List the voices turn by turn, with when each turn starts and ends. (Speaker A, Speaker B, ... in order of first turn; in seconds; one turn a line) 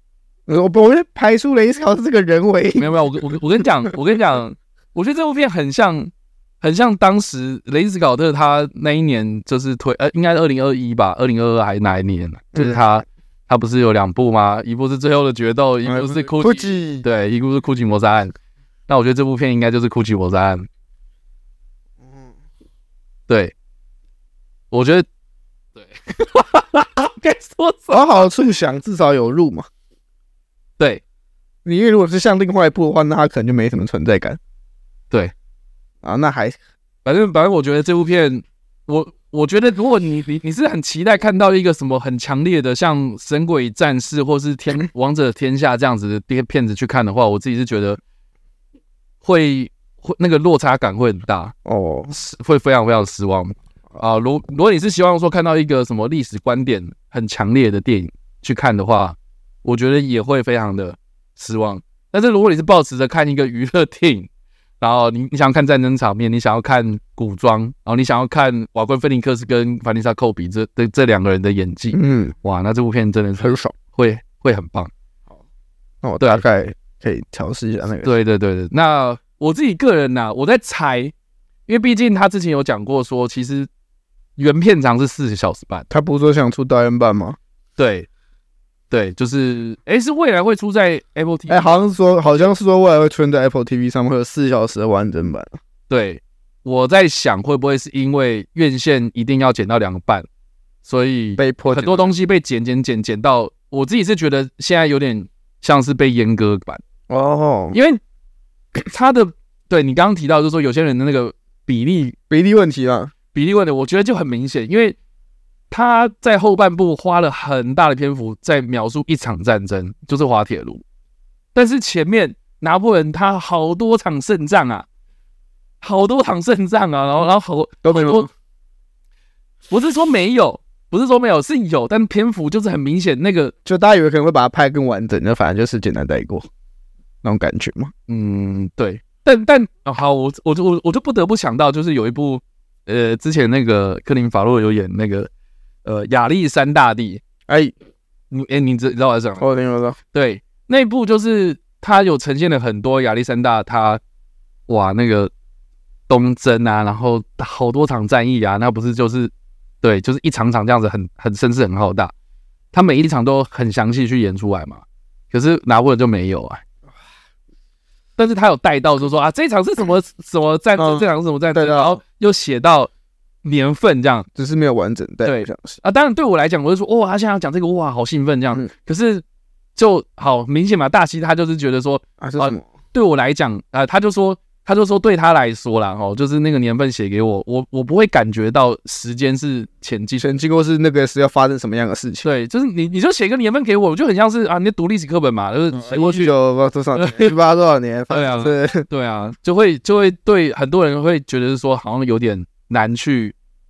Speaker A: 0.5-2.9
Speaker B: 2.8-18.3
Speaker A: 12.5-12.8
Speaker A: 15.8-17.0
Speaker B: 18.9-20.7
Speaker B: 23.3-23.5
Speaker B: 24.7-25.1
Speaker B: 25.8-28.3
Speaker A: 27.9-29.7
Speaker A: 31.6-34.4
Speaker A: 36.0-36.6
Speaker B: 37.0-48.0
Speaker B: 49.2-51.5
Speaker A: 51.6-52.1
Speaker B: 52.1-64.3
Speaker B: 64.8-74.9
Speaker A: 71.9-72.3
Speaker A: 73.4-73.7
Speaker A: 76.0-78.1
Speaker B: 78.0-81.1
Speaker B: 81.7-83.7
Speaker B: 84.4-85.9
Speaker A: 85.9-87.4
Speaker B: 87.8-88.1
Speaker B: 88.9-91.7
Speaker A: 91.5-95.5
Speaker B: 95.9-100.2
Speaker B: 100.8-106.8
Speaker A: 101.4-102.1
Speaker A: 107.1-107.8
Speaker B: 107.7-108.0
Speaker B: 108.7-112.2
Speaker A: 112.3-113.1
Speaker B: 113.3-115.0
Speaker B: 115.7-120.8
Speaker B: 121.5-124.8
Speaker B: 125.8-128.3
Speaker A: 127.8-128.3
Speaker B: 129.7-133.5
Speaker A: 133.6-136.5
Speaker A: 137.2-137.9
Speaker B: 138.1-145.3
Speaker B: 145.8-147.2
Speaker A: 147.5-147.7
Speaker B: 148.3-149.4
Speaker A: 149.4-150.0
Speaker B: 150.1-154.0
Speaker B: 154.7-155.3
Speaker B: 156.1-159.3
Speaker B: 159.8-162.1
Speaker B: 162.7-166.6
Speaker B: 168.2-172.9
Speaker A: 170.8-172.0
Speaker B: 173.4-174.3
Speaker A: 174.3-175.8
Speaker B: 175.2-179.2
Speaker B: 179.8-190.3
Speaker A: 182.2-182.7
Speaker A: 190.2-192.3
Speaker B: 192.2-196.3
Speaker A: 195.7-198.8
Speaker B: 196.9-197.3
Speaker B: 198.1-203.3